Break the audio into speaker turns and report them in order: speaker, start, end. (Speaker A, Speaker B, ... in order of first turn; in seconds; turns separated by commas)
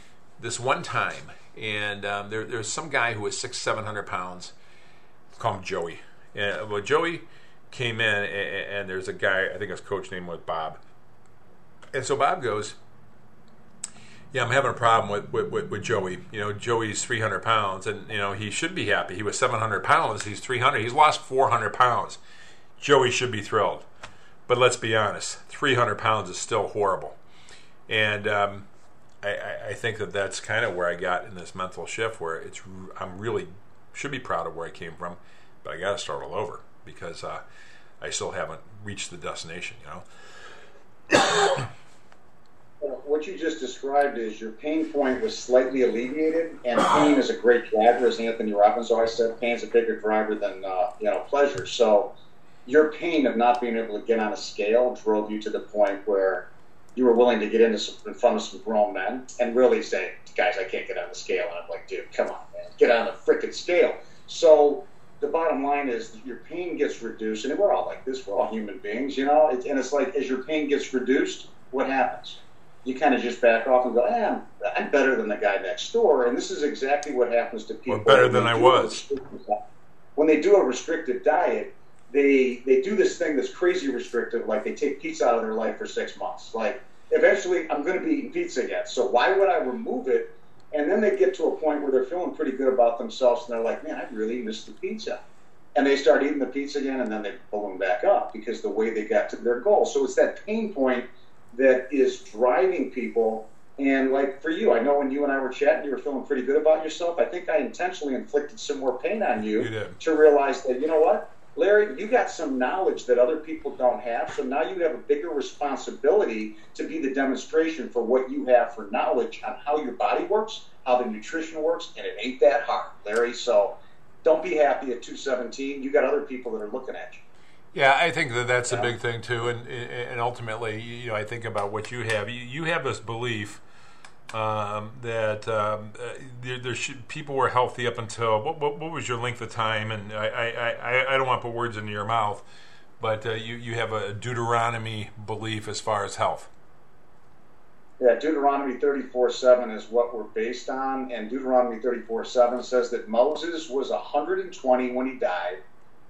Speaker A: 0.4-4.5, Speaker A: 5.3-10.8, Speaker A: 11.9-12.8, Speaker A: 14.3-22.2, Speaker A: 22.8-23.9, Speaker A: 24.5-27.2, Speaker A: 27.9-28.7, Speaker A: 29.2-37.4, Speaker A: 38.0-40.0, Speaker A: 41.1-41.6, Speaker B: 42.8-52.1, Speaker B: 52.6-79.6, Speaker A: 77.9-79.0, Speaker B: 80.2-95.2, Speaker B: 95.7-127.2, Speaker A: 109.5-110.0, Speaker A: 127.7-133.6, Speaker B: 128.7-128.9, Speaker A: 134.3-142.4, Speaker A: 143.0-146.5, Speaker B: 148.0-155.6